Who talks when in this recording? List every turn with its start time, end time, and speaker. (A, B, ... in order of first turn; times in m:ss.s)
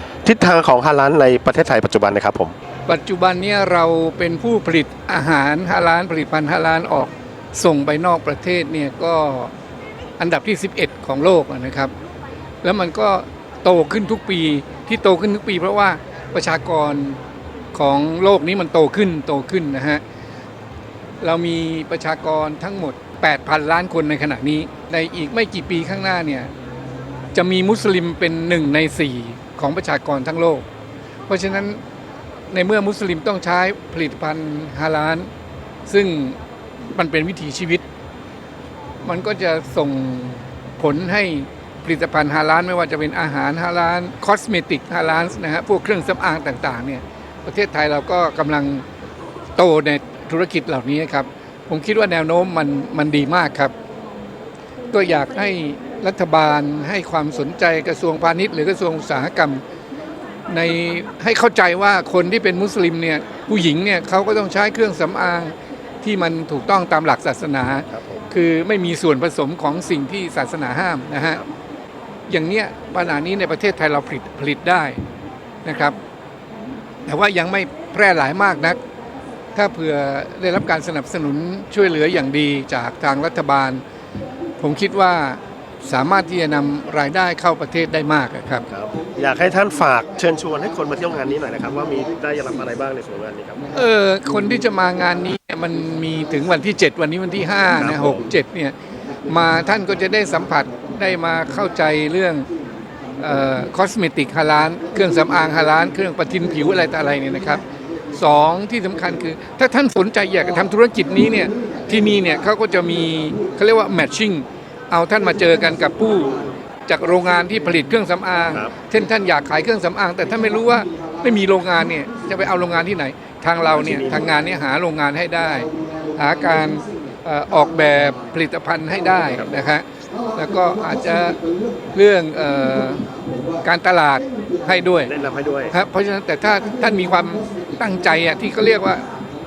0:00.2-0:02.5 A
0:02.9-0:09.5 B
0:10.2-0:11.9 B
0:12.6-0:17.2 B
0:17.7-0:20.0 B
0:21.2-0:26.5 B
0:27.3-0:30.6 B
0:31.3-0:31.8 B
0:32.5-0:35.3 B
0:35.8-0:36.4 B
0:36.9-0:37.8 B
0:39.0-0:48.8 B
0:49.6-0:53.7 B
0:54.9-0:59.6 B
1:00.5-1:11.4 B
1:07.9-1:08.1 A
1:12.3-1:15.0 B
1:15.6-1:16.0 B
1:17.0-1:18.8 B
1:19.5-1:23.8 B
1:24.6-1:28.7 B
1:28.7-1:33.6 A
1:33.7-1:38.7 B
1:37.7-1:38.2 A
1:39.3-1:42.5 B
1:43.2-1:47.6 B
1:48.1-2:11.4 B
2:03.8-2:04.3 A
2:11.9-2:13.1 B
2:13.6-2:15.1 B
2:15.1-2:15.7 A
2:15.7-2:19.0 B